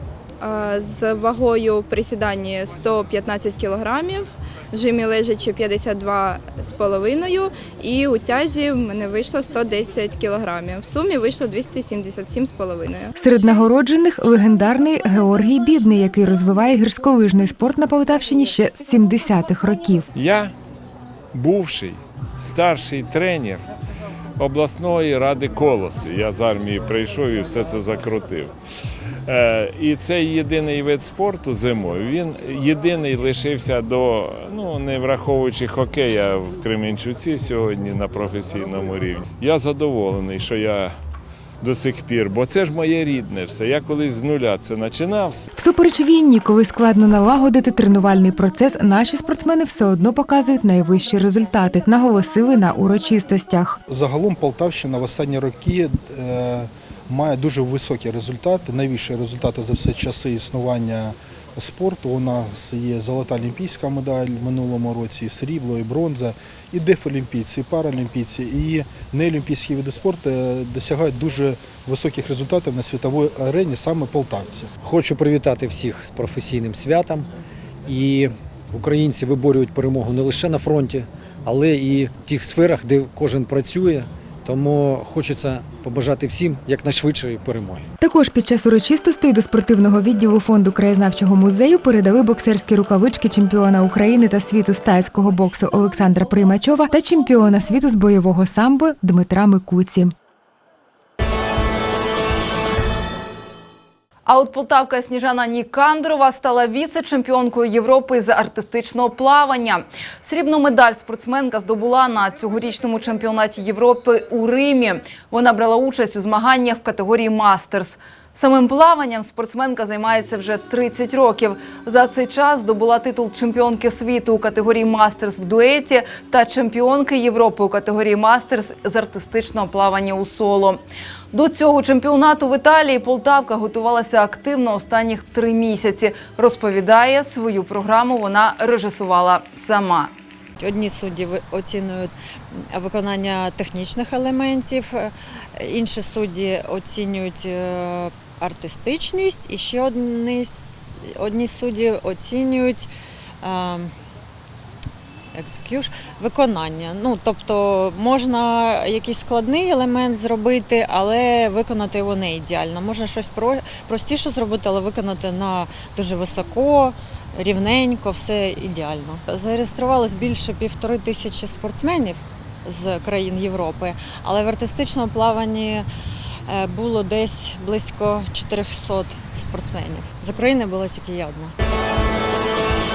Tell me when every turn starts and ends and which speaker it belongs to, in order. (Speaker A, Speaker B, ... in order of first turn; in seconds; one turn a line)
Speaker A: 0.4-13.1
Speaker B: 13.2-20.1
Speaker C: 20.1-20.5
Speaker C: 21.3-23.6
Speaker C: 24.4-28.5
Speaker C: 29.3-40.9
Speaker C: 41.6-45.5
Speaker B: 45.6-53.8
Speaker D: 53.9-74.7
Speaker E: 74.8-77.2
Speaker E: 77.9-87.8
Speaker B: 88.0-100.1
Speaker F: 104.2-140.1
Speaker G: 140.6-152.9
Speaker G: 153.4-153.9
Speaker G: 155.3-175.9
Speaker G: 176.5-181.5